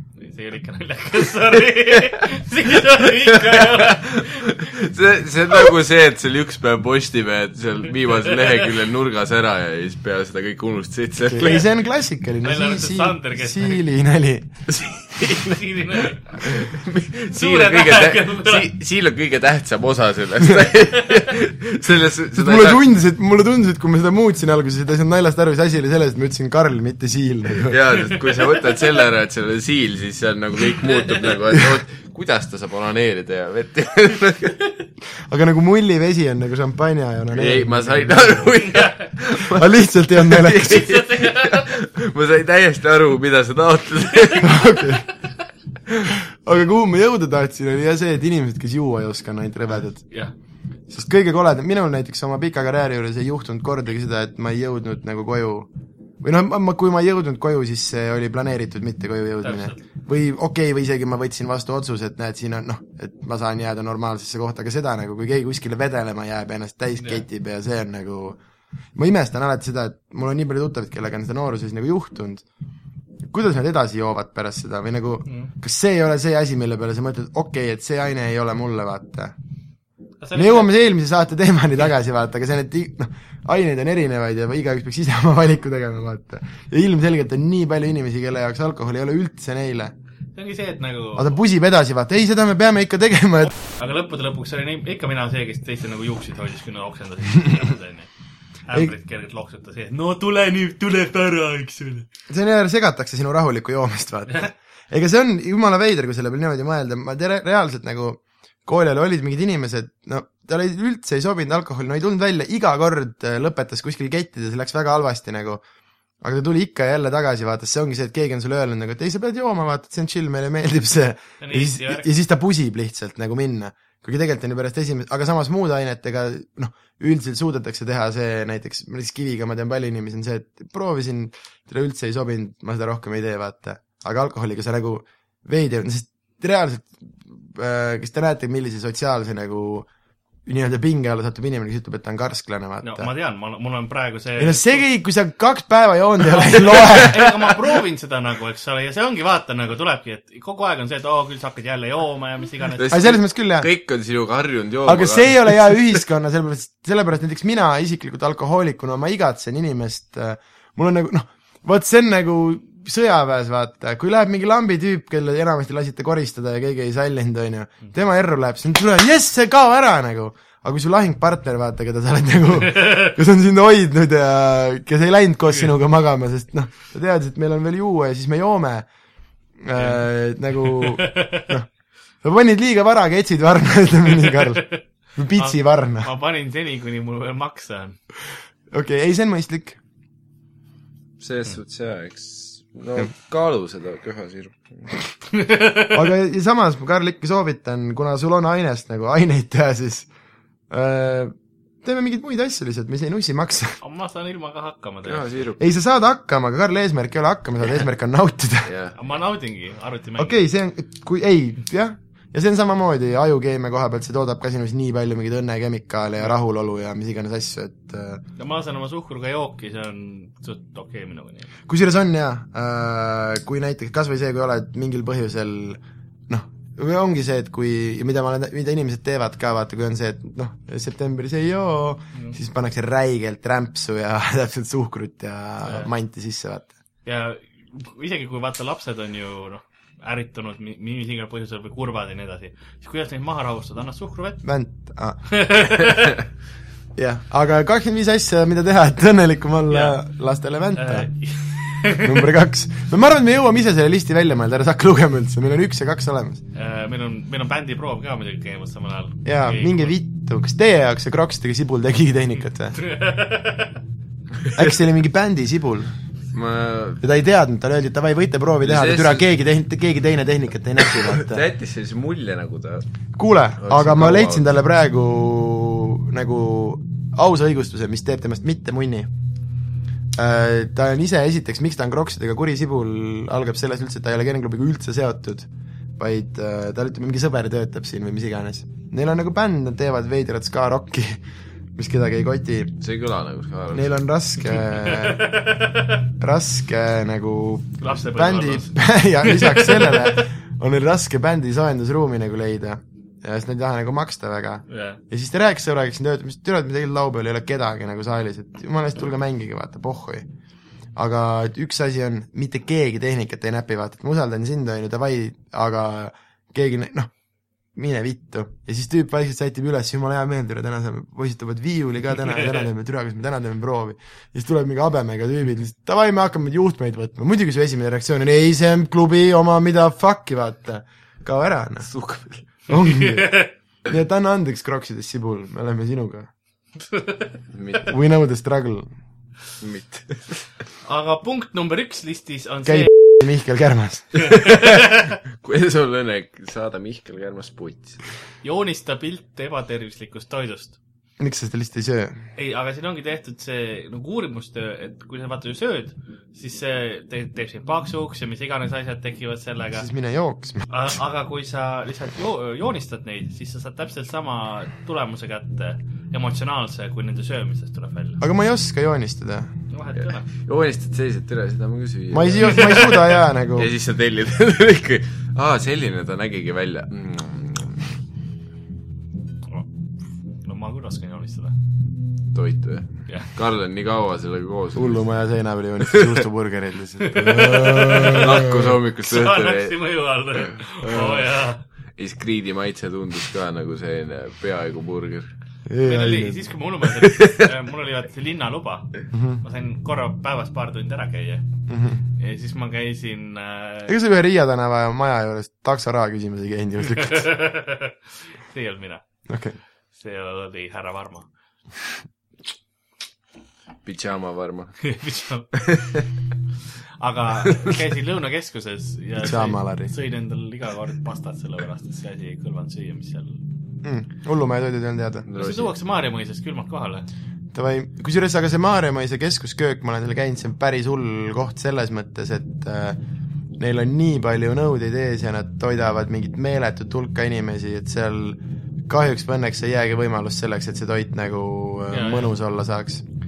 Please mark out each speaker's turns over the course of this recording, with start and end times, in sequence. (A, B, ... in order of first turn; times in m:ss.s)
0:00.2-0:04.5 A
0:03.3-0:11.6 B
0:11.2-0:14.7 C
0:12.4-0:13.8 A
0:15.0-0:16.4 A
0:15.2-0:15.5 B
0:16.3-0:22.8 B
0:17.2-0:18.7 A
0:22.3-0:27.8 C
0:27.7-0:34.6 B
0:28.1-0:28.6 A
0:31.0-0:31.3 A
0:35.3-0:38.5 C
0:37.3-0:44.6 B
0:38.6-0:39.1 A
0:39.4-0:40.9 C
0:40.6-0:41.7 A
0:44.4-0:45.0 C
0:46.1-0:50.1 C
0:50.9-0:55.7 C
0:56.2-1:08.4 C
0:59.4-0:59.8 A
1:07.0-1:07.2 A
1:09.0-1:12.4 C
1:13.3-1:19.4 C
1:20.2-1:20.7 A
1:20.4-1:29.9 C
1:30.4-1:31.4 A
1:31.2-1:33.5 C
1:33.8-1:38.1 A
1:38.7-1:42.1 A
1:42.3-1:55.6 C
1:56.2-2:19.9 C
2:01.4-2:02.1 A
2:20.4-2:23.1 C
2:22.8-2:24.8 A
2:24.4-2:27.6 C
2:26.4-2:33.1 A
2:32.8-2:36.0 B
2:32.9-2:33.7 C
2:34.9-2:58.9 C
2:59.6-3:01.7 C
2:59.7-3:00.0 A
3:00.6-3:01.5 A
3:02.2-3:06.1 C
3:04.3-3:04.8 A
3:05.4-3:08.0 A
3:08.7-3:09.8 C
3:11.2-3:15.0 B
3:15.3-3:16.0 A
3:15.9-3:20.1 C
3:20.7-3:23.8 C
3:23.8-3:25.5 A
3:25.0-3:25.6 B
3:25.6-3:28.7 C
3:28.7-3:29.0 B
3:29.0-3:30.4 A
3:30.2-3:38.2 C
3:38.4-3:41.5 A
3:41.7-3:56.7 C
3:55.6-3:55.9 A
3:57.0-4:04.4 A
4:04.4-4:05.2 C
4:05.3-4:06.2 A
4:07.0-4:11.1 C
4:09.7-4:10.0 A
4:10.8-4:12.3 A
4:11.9-4:16.4 C
4:16.5-4:19.9 A
4:19.2-4:22.8 C
4:22.8-4:23.8 A
4:24.5-4:25.9 C
4:26.3-4:27.0 B
4:27.0-4:31.4 C
4:28.6-4:29.3 B
4:31.0-4:32.9 B
4:33.2-4:39.1 C
4:33.6-4:34.6 B
4:40.2-4:51.2 C
4:51.8-4:52.7 C
4:52.8-4:53.9 B
4:53.7-4:55.2 C
4:54.8-4:56.0 A
4:56.2-5:10.3 C
4:57.8-5:00.2 A
5:04.7-5:05.0 A
5:11.0-5:17.1 C
5:17.8-5:31.9 C
5:31.9-5:32.4 B
5:32.7-5:36.3 C
5:32.8-5:33.5 A
5:37.5-5:37.9 B
5:37.9-5:38.9 C
5:39.6-5:40.4 B
5:40.8-5:42.9 A
5:42.6-5:44.3 C
5:44.3-5:44.8 B
5:44.4-5:44.7 A
5:45.3-5:48.0 B
5:48.4-5:50.8 A
5:51.2-5:52.2 C
5:52.4-5:59.9 A
5:59.8-6:00.6 C
6:00.7-6:08.2 A
6:08.2-6:09.5 C
6:09.7-6:10.3 A
6:10.4-6:18.0 B
6:12.1-6:13.7 C
6:12.5-6:12.9 A
6:20.4-6:21.5 A
6:22.3-6:25.0 B
6:24.7-6:28.8 C
6:25.9-6:26.2 B
6:27.0-6:28.3 A
6:27.9-6:29.8 B
6:29.1-6:31.6 A
6:32.0-6:35.3 B
6:35.7-6:36.4 C
6:35.8-6:38.9 A
6:37.0-6:37.4 B
6:39.1-6:39.4 C
6:39.4-6:41.4 A
6:41.7-6:42.0 C
6:42.2-6:44.0 A
6:43.9-6:47.3 C
6:46.9-6:49.0 A
6:49.3-6:49.6 C
6:49.9-6:51.3 A
6:53.8-6:54.9 B
6:54.8-6:55.5 A
6:55.7-6:56.0 B
6:57.0-7:03.4 A
6:59.2-6:59.9 C
7:03.8-7:05.3 C
7:05.3-7:05.7 B
7:05.4-7:07.1 A
7:07.5-7:13.0 C
7:13.6-7:23.0 C
7:21.9-7:22.3 A